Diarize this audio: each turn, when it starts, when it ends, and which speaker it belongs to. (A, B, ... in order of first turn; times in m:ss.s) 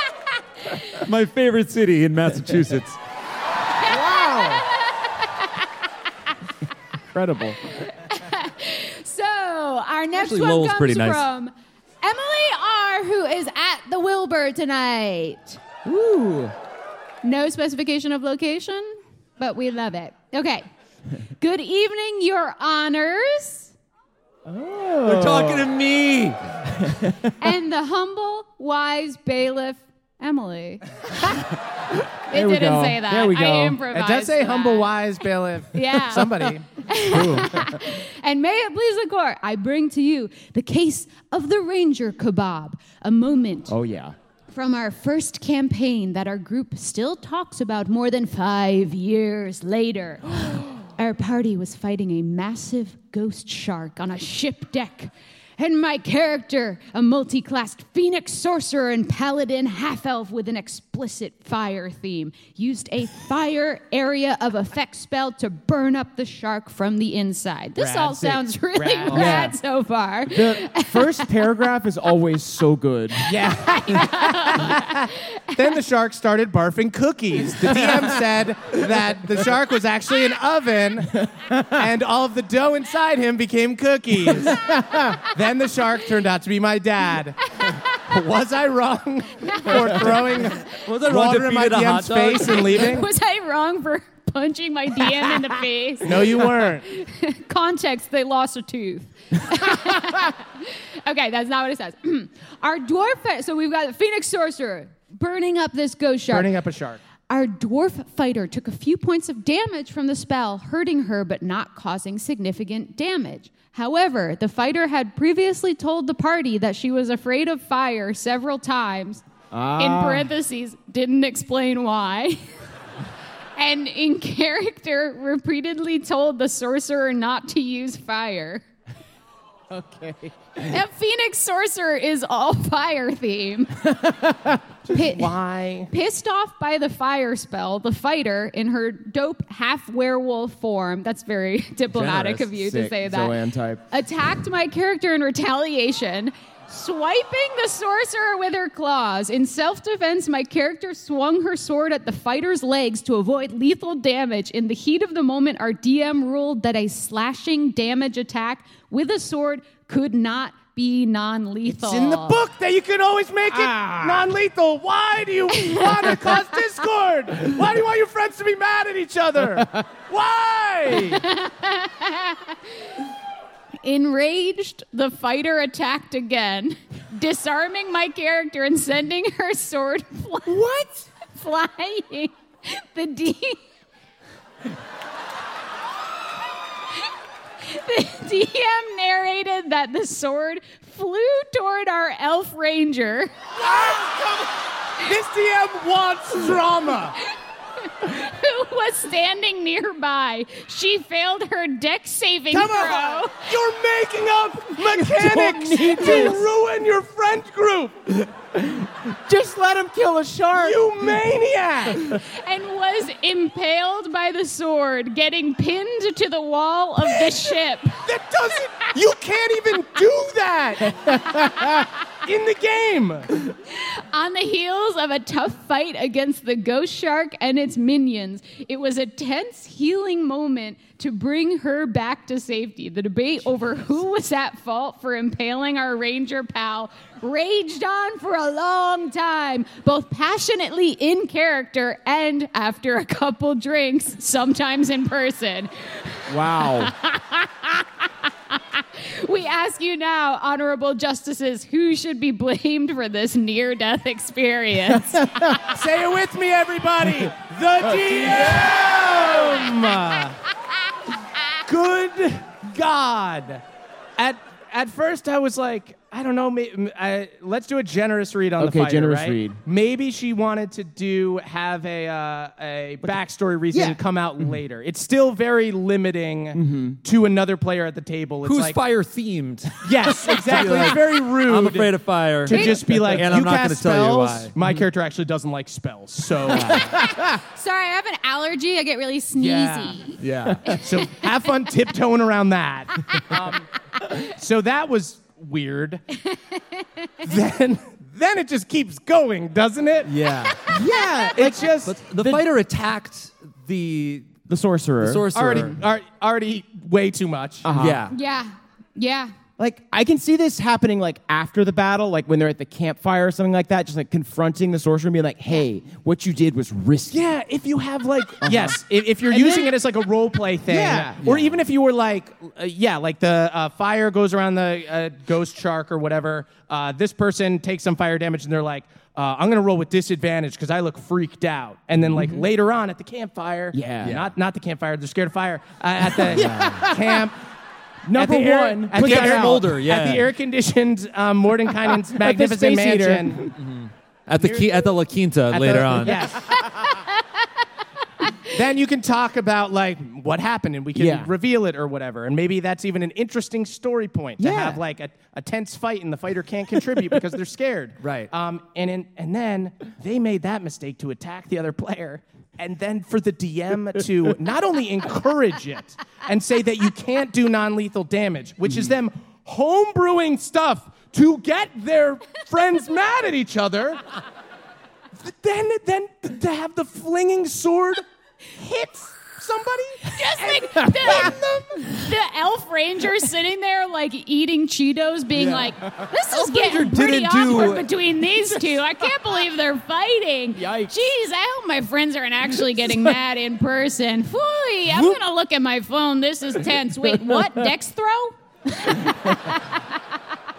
0:00.9-0:03.0 A
0:03.8-0:05.5 B
0:03.8-0:04.6 C
0:07.1-0:07.7 C
0:07.7-0:15.6 B
0:10.1-0:11.2 A
0:15.8-0:16.5 C
0:17.2-0:20.6 B
0:21.4-0:23.7 B
0:24.4-0:25.7 C
0:25.0-0:26.8 A
0:26.8-0:27.3 C
0:27.4-0:31.5 B
0:32.3-0:35.0 B
0:32.3-0:33.8 C
0:33.9-0:36.7 D
0:35.7-0:43.7 B
0:37.1-0:37.7 C
0:43.7-0:44.1 C
0:44.5-1:11.5 B
1:07.8-1:09.5 D
1:09.0-1:09.6 C
1:10.3-1:13.3 C
1:13.2-1:15.0 D
1:13.3-1:15.5 B
1:15.5-1:33.1 D
1:17.6-1:18.1 C
1:24.5-1:25.2 C
1:29.5-1:29.7 B
1:30.6-1:32.8 A
1:32.6-1:46.5 B
1:36.0-1:36.8 D
1:46.3-1:47.0 D
1:47.3-1:59.2 B
1:59.5-2:00.3 C
1:59.8-2:02.4 B
2:03.6-2:08.6 B
2:09.7-2:10.7 C
2:10.6-2:14.0 B
2:13.9-2:14.6 C
2:14.9-2:15.3 B
2:14.9-2:15.9 D
2:15.9-2:23.4 B
2:21.9-2:22.6 A
2:22.6-2:23.8 C
2:23.9-2:42.4 B
2:41.7-2:51.2 D
2:43.5-2:44.3 C
2:45.6-2:46.3 B
2:51.0-2:52.6 B
2:53.8-3:03.6 B
3:07.6-3:13.3 B
3:13.6-3:17.2 D
3:17.8-3:23.5 B
3:22.5-3:28.3 D
3:24.7-3:26.4 C
3:28.5-3:30.9 C
3:30.5-3:32.1 D
3:32.2-3:38.0 B
3:38.0-3:43.3 D
3:41.2-3:41.7 C
3:43.7-4:07.9 B
4:06.3-4:06.9 C
4:08.5-4:15.6 B
4:15.1-4:15.5 C
4:15.5-4:20.4 D
4:18.1-4:18.5 C
4:21.6-4:23.6 D
4:24.2-4:38.8 D
4:28.6-4:29.6 C
4:33.7-4:34.0 C
4:36.5-4:37.0 C
4:38.4-4:44.6 A
4:39.8-4:41.9 D
4:42.4-4:47.0 D
4:42.5-4:42.8 B
4:46.5-4:47.4 C
4:47.3-4:51.2 B
4:49.4-4:50.0 D
4:50.2-4:50.8 A
4:50.7-4:56.0 D
4:56.3-4:57.1 B
4:57.2-5:00.1 D
5:00.0-5:00.7 A
5:00.7-5:02.4 C
5:01.3-5:01.9 D
5:01.8-5:04.3 A
5:04.5-5:05.6 C
5:05.0-5:05.8 A
5:05.3-5:07.7 D
5:07.6-5:08.0 C
5:07.7-5:08.1 A
5:08.1-5:09.3 B
5:09.6-5:17.2 C
5:17.1-5:37.4 D
5:18.4-5:19.7 C
5:20.7-5:21.2 C
5:21.2-5:21.6 A
5:32.1-5:32.5 C
5:33.7-5:34.2 C
5:34.0-5:34.3 A
5:36.1-5:37.3 C
5:36.3-5:36.9 A
5:38.0-5:39.6 C
5:38.1-5:43.5 D
5:38.9-5:40.3 A
5:42.0-5:43.5 C
5:43.5-5:46.3 A
5:44.4-5:44.9 D
5:45.5-5:46.9 D
5:46.7-5:47.2 B
5:48.5-6:14.0 D
5:50.9-5:51.3 C
5:54.4-5:54.8 C
5:58.0-5:58.3 A
6:15.2-6:18.0 D
6:19.3-6:21.6 D
6:20.1-6:39.8 B
6:20.8-6:21.8 C
6:25.3-6:26.1 C
6:26.3-6:27.9 A
6:30.6-6:31.0 C
6:34.9-6:35.2 C
6:37.0-6:37.6 C